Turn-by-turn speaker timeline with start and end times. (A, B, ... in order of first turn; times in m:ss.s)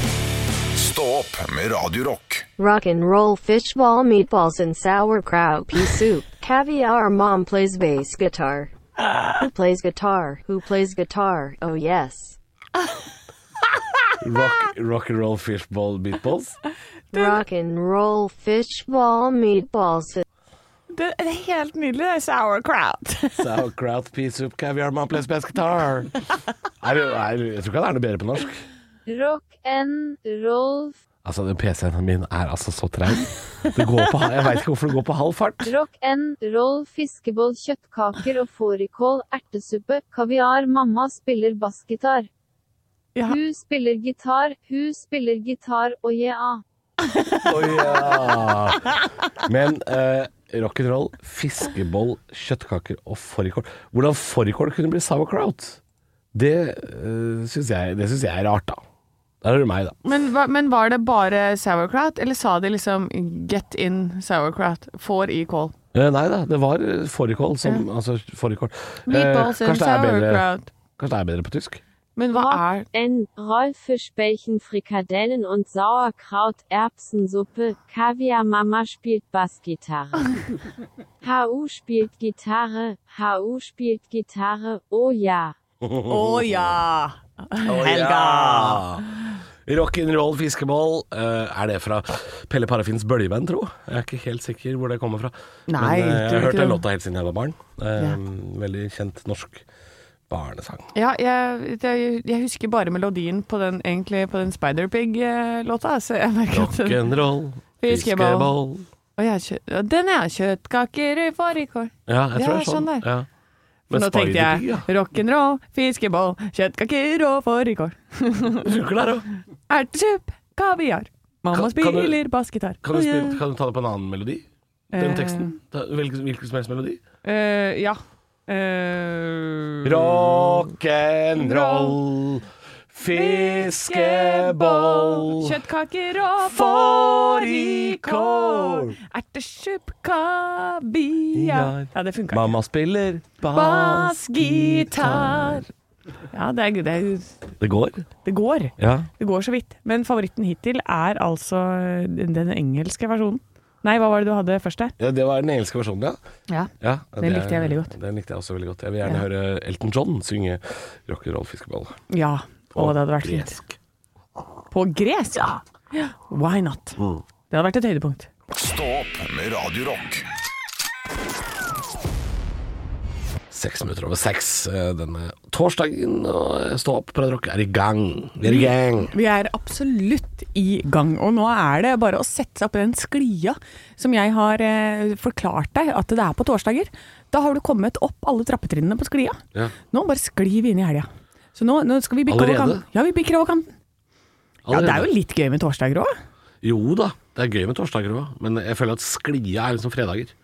0:00.7-0:02.5 A
0:02.6-0:08.7 B
0:09.4-0:12.4 B
0:14.2-0:16.6 C
0:17.1-0:20.2 B
0:20.9-0:23.4 D
0:23.4-0:26.2 C
0:26.8-0:28.6 C
0:29.1-0:31.0 E
0:31.2-0:35.7 C
0:35.6-0:42.3 E
0:43.3-0:46.6 E
0:47.4-0:48.9 C
0:49.4-0:55.8 C
0:56.3-0:58.8 C
0:59.4-1:00.0 C
1:00.0-1:05.7 D
1:05.9-1:10.5 C
1:09.1-1:10.7 D
1:11.0-1:11.8 C
1:12.2-1:12.9 D
1:12.3-1:20.6 E
1:21.2-1:25.6 E
1:25.8-1:26.8 C
1:26.1-1:28.9 D
1:27.6-1:39.6 C
1:35.7-1:36.8 D
1:40.3-1:40.9 C
1:40.9-1:47.0 D
1:46.5-1:48.9 C
1:47.8-1:48.5 D
1:49.2-1:53.1 D
1:52.1-1:53.3 C
1:53.9-1:54.9 C
1:53.9-1:58.7 D
1:58.6-1:59.3 C
1:59.7-2:03.4 D
2:01.5-2:02.2 C
2:02.8-2:07.0 C
2:04.9-2:05.6 D
2:07.2-2:10.7 D
2:09.8-2:15.6 C
2:11.4-2:12.0 D
2:13.1-2:22.6 D
2:16.4-2:19.0 C
2:21.3-2:25.7 C
2:23.5-2:25.7 D
2:26.3-2:27.4 D
2:27.6-2:28.1 C
2:28.2-2:35.0 D
2:28.8-2:29.1 C
2:35.0-2:36.2 C
2:36.5-2:37.9 D
2:36.8-2:42.0 C
2:42.1-2:43.6 D
2:42.8-2:43.8 C
2:44.7-2:48.3 D
2:48.5-2:50.2 A
2:53.5-2:59.1 C
2:58.4-3:09.4 D
3:09.9-3:13.7 D
3:12.3-3:12.8 C
3:14.7-3:15.1 C
3:14.7-3:16.2 D
3:16.6-3:20.3 C